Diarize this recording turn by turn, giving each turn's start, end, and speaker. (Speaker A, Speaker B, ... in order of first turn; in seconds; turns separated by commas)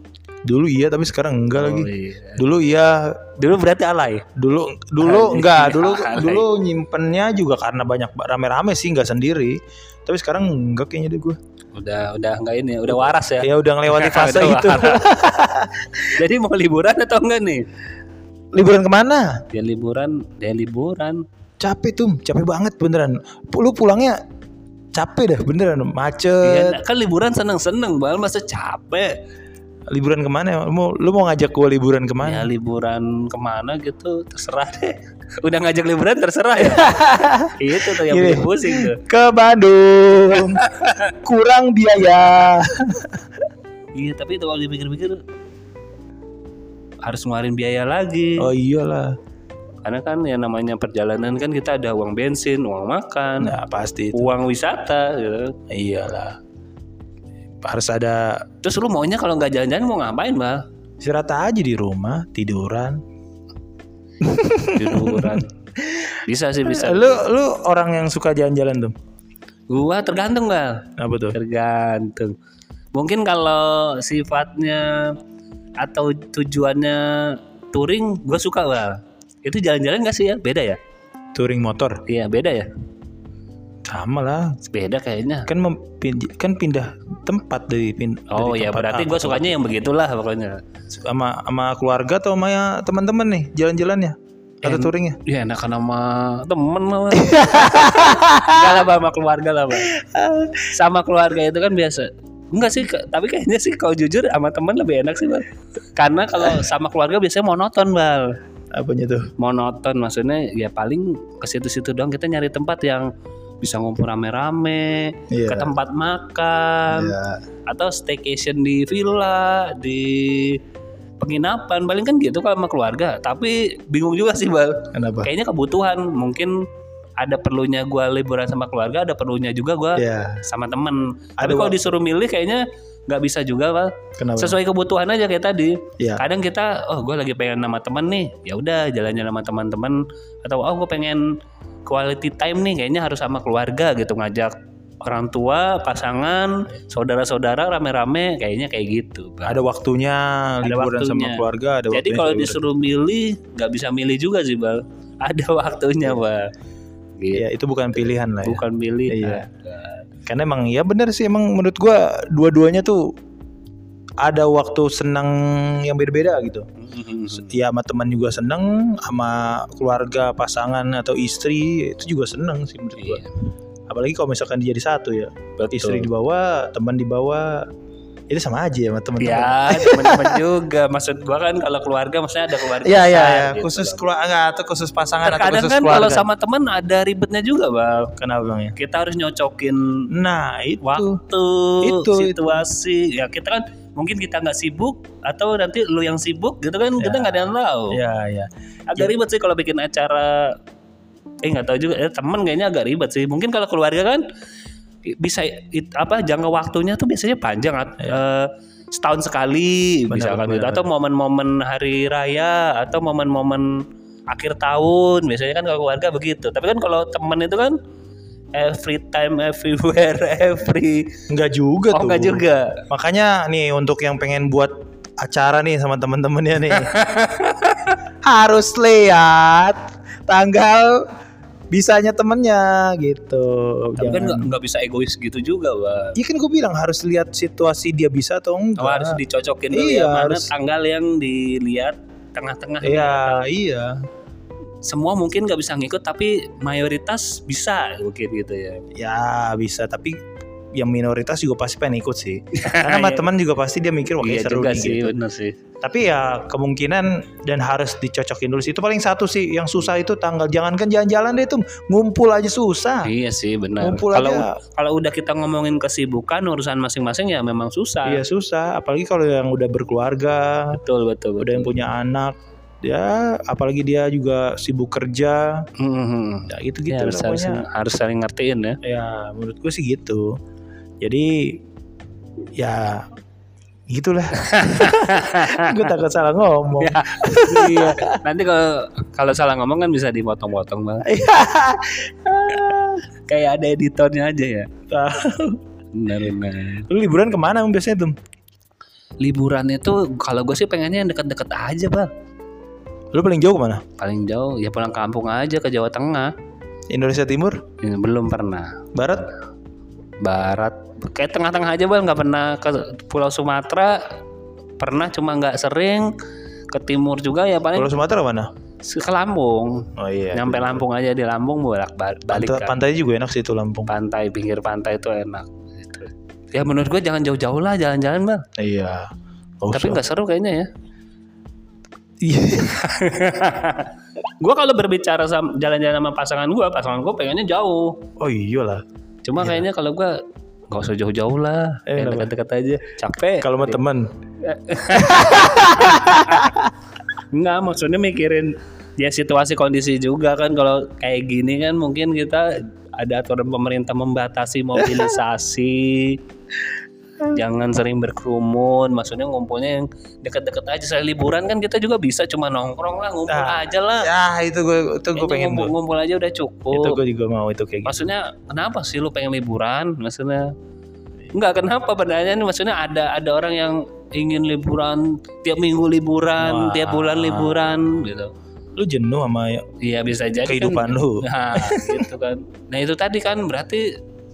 Speaker A: 0.5-3.2, Speaker B: 1.6-2.4, Speaker B: 3.4-4.2, Speaker A: 4.3-11.4, Speaker B: 5.0-6.4, Speaker B: 11.7-15.1, Speaker A: 12.9-16.0, Speaker B: 16.1-17.6, Speaker A: 18.5-19.3, Speaker B: 19.5-21.2, Speaker A: 21.6-24.2, Speaker A: 24.9-26.8, Speaker B: 26.4-29.1, Speaker A: 29.9-32.5, Speaker B: 32.2-37.0, Speaker A: 36.6-40.6, Speaker B: 37.6-39.0, Speaker B: 40.6-41.1, Speaker A: 41.2-43.1, Speaker B: 44.0-45.2, Speaker B: 47.0-48.5, Speaker A: 48.4-49.1, Speaker B: 49.8-53.5, Speaker A: 53.4-54.3, Speaker B: 54.1-55.5, Speaker A: 55.7-56.4, Speaker A: 57.6-58.4, Speaker B: 58.6-60.6, Speaker A: 61.0-63.0, Speaker A: 64.2-68.9, Speaker B: 64.7-65.5, Speaker B: 66.2-67.3, Speaker B: 69.7-72.3, Speaker A: 71.0-71.3, Speaker B: 72.9-75.2, Speaker B: 75.8-80.8, Speaker A: 81.3-82.0, Speaker B: 82.1-82.7, Speaker A: 83.9-84.5, Speaker B: 84.7-85.5, Speaker A: 85.5-89.5, Speaker B: 88.3-90.5, Speaker A: 90.9-95.2, Speaker B: 94.6-99.9, Speaker A: 97.2-98.9, Speaker A: 99.7-100.7, Speaker B: 100.7-105.4, Speaker B: 106.0-108.3, Speaker A: 108.7-109.3, Speaker B: 109.4-113.1, Speaker B: 113.6-117.2, Speaker A: 115.3-115.7, Speaker A: 116.9-117.4, Speaker B: 117.7-120.6, Speaker B: 121.2-126.5, Speaker A: 124.9-125.3, Speaker B: 127.2-141.2, Speaker A: 130.0-130.4, Speaker A: 131.4-131.8, Speaker A: 134.2-134.6, Speaker A: 136.0-136.2, Speaker B: 141.8-149.6, Speaker A: 149.4-152.6, Speaker B: 150.6-151.4, Speaker B: 151.9-156.5, Speaker B: 157.2-157.5, Speaker A: 157.3-159.5, Speaker B: 158.4-160.0, Speaker A: 160.3-163.0, Speaker A: 164.2-166.7, Speaker B: 166.8-167.5, Speaker A: 167.3-173.2, Speaker B: 173.0-173.3, Speaker A: 173.9-177.7, Speaker B: 175.6-176.1, Speaker A: 178.3-180.4, Speaker B: 179.2-184.1, Speaker A: 182.7-186.3, Speaker B: 185.2-188.1, Speaker A: 188.2-188.7, Speaker B: 188.8-190.1, Speaker A: 190.1-191.2, Speaker B: 190.8-198.0, Speaker A: 191.8-192.7, Speaker A: 197.0-199.1, Speaker B: 198.9-200.5, Speaker B: 201.4-204.2, Speaker B: 205.1-213.7, Speaker A: 210.1-210.9, Speaker B: 214.3-217.8, Speaker B: 218.5-221.1, Speaker A: 221.3-226.9, Speaker B: 221.9-222.8, Speaker B: 226.7-228.0, Speaker A: 228.2-231.0, Speaker A: 231.7-234.5, Speaker B: 234.0-236.1, Speaker A: 236.2-239.2, Speaker B: 238.8-243.4, Speaker A: 239.7-240.5, Speaker A: 242.8-244.0, Speaker B: 244.8-248.8, Speaker A: 248.9-250.1, Speaker A: 250.7-255.1, Speaker B: 252.6-253.2, Speaker B: 254.2-255.6, Speaker A: 255.8-263.1, Speaker B: 263.1-268.2, Speaker A: 263.8-264.5, Speaker A: 268.0-270.8, Speaker B: 270.7-271.7, Speaker A: 271.4-275.6, Speaker B: 275.8-278.8, Speaker A: 276.5-277.6, Speaker A: 278.8-280.3, Speaker A: 281.0-281.6, Speaker A: 282.6-283.1, Speaker A: 283.9-288.2, Speaker B: 284.4-285.9, Speaker B: 286.8-291.1, Speaker A: 291.0-293.0, Speaker B: 293.3-294.7, Speaker A: 294.9-295.6, Speaker B: 295.9-296.9, Speaker A: 296.9-298.1, Speaker B: 299.2-302.1, Speaker A: 303.1-303.8, Speaker B: 304.0-306.3, Speaker A: 306.9-307.6, Speaker B: 307.8-308.8, Speaker A: 308.9-309.3, Speaker B: 310.2-314.1, Speaker B: 314.8-316.1, Speaker B: 316.7-317.9, Speaker A: 317.7-318.5, Speaker B: 318.8-322.8, Speaker A: 320.0-320.8, Speaker A: 322.3-323.9, Speaker B: 323.9-328.4, Speaker A: 328.6-330.0, Speaker B: 329.7-330.7, Speaker A: 332.2-332.8, Speaker B: 332.6-338.0, Speaker A: 338.2-338.8, Speaker B: 339.2-343.8, Speaker A: 341.9-342.3, Speaker A: 343.4-344.1, Speaker B: 344.4-346.5, Speaker A: 344.9-346.7, Speaker B: 347.3-356.2, Speaker B: 357.3-364.1, Speaker A: 363.3-365.7, Speaker B: 365.1-367.0, Speaker A: 366.7-368.0, Speaker B: 367.9-370.4, Speaker B: 371.3-378.3, Speaker A: 376.4-377.8, Speaker A: 378.8-379.6, Speaker B: 379.8-383.9, Speaker A: 380.4-382.0